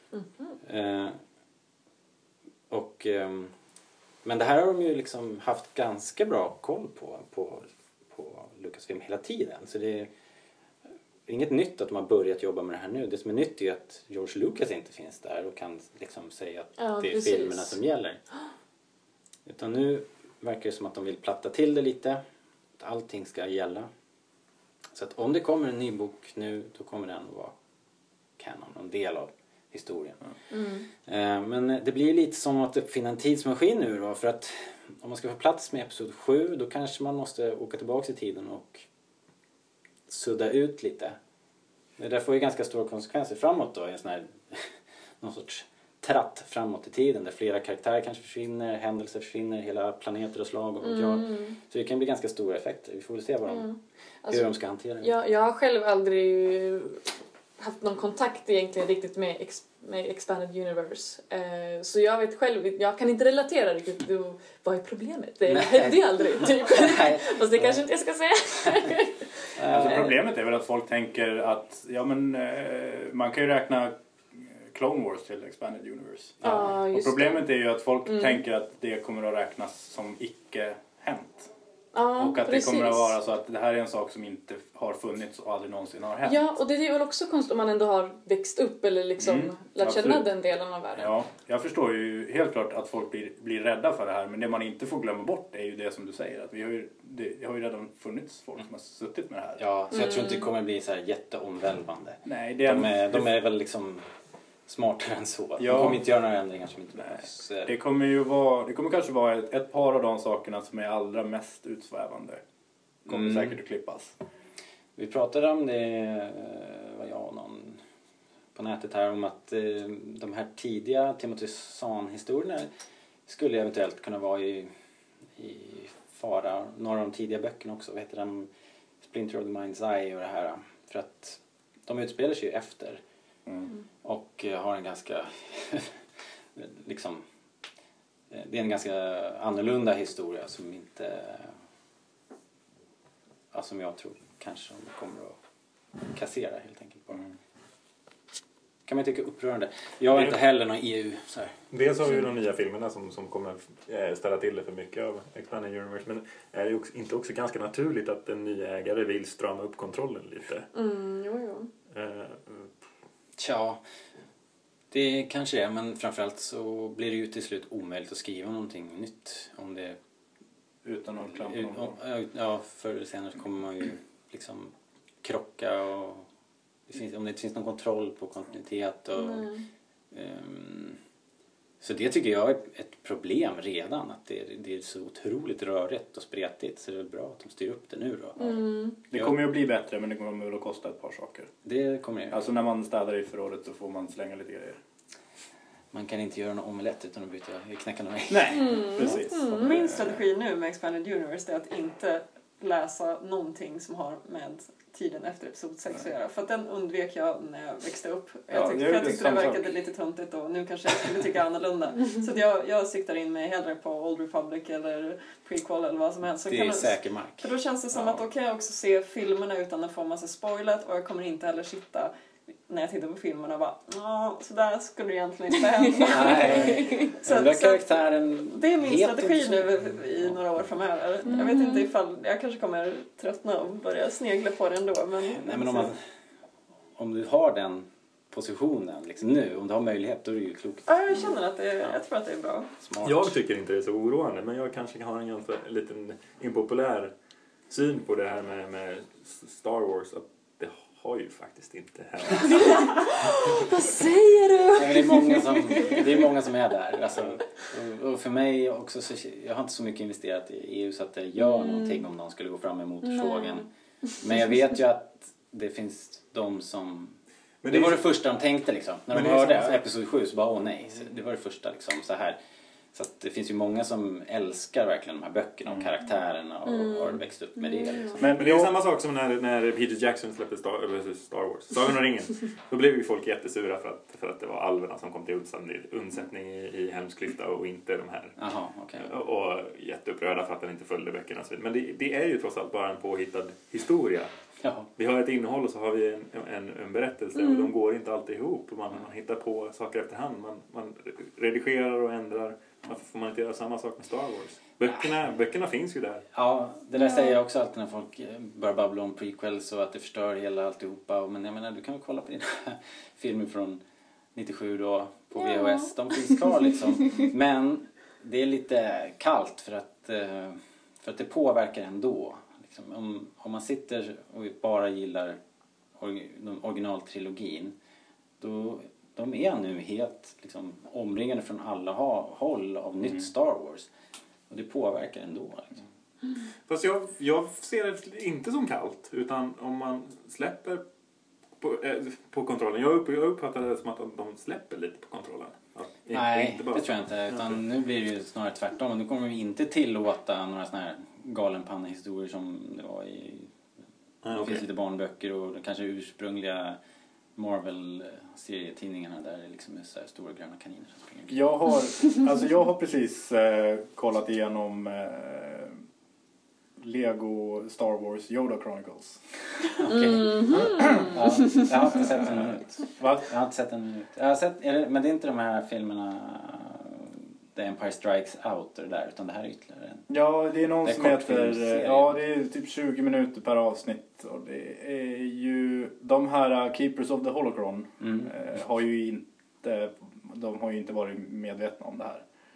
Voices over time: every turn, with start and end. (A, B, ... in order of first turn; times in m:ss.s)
0:00.1-0:00.5 A
0:00.6-0:01.2 B
0:02.7-0:03.5 B
0:04.2-0:10.1 B
0:11.3-0:18.2 B
0:16.8-0:17.8 A
0:19.4-0:22.2 B
0:22.8-0:23.9 B
0:24.9-0:27.6 B
0:28.4-0:30.2 B
0:30.5-0:30.9 A
0:31.0-0:38.8 B
0:40.1-0:41.2 B
0:42.0-0:53.7 B
0:50.8-0:51.6 A
0:53.4-0:54.5 A
0:54.3-0:55.1 B
0:55.0-0:57.0 A
0:57.6-1:09.8 A
1:05.4-1:07.8 B
1:09.6-1:10.1 B
1:09.7-1:21.5 C
1:16.4-1:16.7 B
1:16.4-1:17.5 A
1:18.0-1:18.4 A
1:21.9-1:23.1 A
1:22.2-1:26.5 C
1:26.2-1:31.1 A
1:29.2-1:30.3 C
1:31.0-1:39.6 C
1:39.6-1:44.0 B
1:39.9-1:40.4 A
1:42.2-1:43.4 C
1:44.7-1:47.7 B
1:45.6-1:46.1 C
1:47.0-1:52.4 C
1:53.0-1:54.1 C
1:53.1-1:53.6 B
1:55.0-1:57.8 B
1:58.5-2:02.7 B
2:03.3-2:04.7 B
2:05.4-2:08.5 B
2:09.0-2:13.0 B
2:14.0-2:16.0 B
2:16.6-2:17.2 B
2:18.3-2:21.6 B
2:23.5-2:25.4 B
2:26.1-2:27.2 B
2:28.9-2:31.5 B
2:30.1-2:30.4 D
2:31.7-2:40.7 D
2:40.7-2:41.7 A
2:41.9-2:42.7 D
2:43.4-2:43.8 B
2:44.9-2:50.0 B
2:50.8-2:52.0 C
2:51.4-2:56.2 B
2:56.9-2:59.5 B
2:59.2-2:59.6 A
3:00.1-3:01.0 B
3:01.8-3:08.6 B
3:08.4-3:09.0 A
3:09.1-3:11.5 C
3:09.1-3:09.4 B
3:11.6-3:12.4 B
3:12.3-3:14.8 C
3:15.9-3:19.1 B
3:18.3-3:20.2 C
3:18.5-3:19.7 A
3:19.5-3:42.1 E
3:28.5-3:29.8 C
3:36.4-3:37.5 B
3:42.7-3:55.9 E
3:45.9-3:47.1 A
3:46.0-3:50.4 B
3:51.3-3:51.9 A
3:55.3-3:56.0 B
3:57.0-4:02.0 B
4:00.9-4:02.7 E
4:02.8-4:03.4 B
4:03.0-4:07.1 D
4:07.7-4:13.0 D
4:12.4-4:16.0 A
4:14.7-4:23.7 B
4:21.4-4:22.0 A
4:23.0-4:23.6 A
4:24.2-4:32.4 B
4:27.6-4:28.0 D
4:29.1-4:29.8 D
4:32.9-4:38.2 B
4:36.7-4:38.2 A
4:38.2-4:38.7 C
4:38.4-4:48.3 D
4:48.4-4:49.1 B
4:49.0-4:54.3 D
4:54.6-4:54.9 B
4:55.0-5:06.2 D
4:57.4-4:57.7 A
5:06.3-5:13.8 B
5:07.0-5:07.4 A
5:14.3-5:25.4 B
5:15.4-5:16.3 A
5:26.0-5:27.7 B
5:28.4-5:33.9 B
5:34.5-5:35.8 B
5:36.7-5:40.8 D
5:41.6-5:47.6 D
5:46.1-5:53.5 B
5:54.2-5:54.6 D
5:54.3-5:56.8 B
5:57.4-6:01.4 B
6:01.3-6:05.8 C
6:06.8-6:09.2 C
6:09.8-6:20.1 B
6:09.8-6:11.6 A
6:12.2-6:13.3 C
6:20.1-6:32.2 C
6:20.8-6:22.2 B
6:28.0-6:28.3 B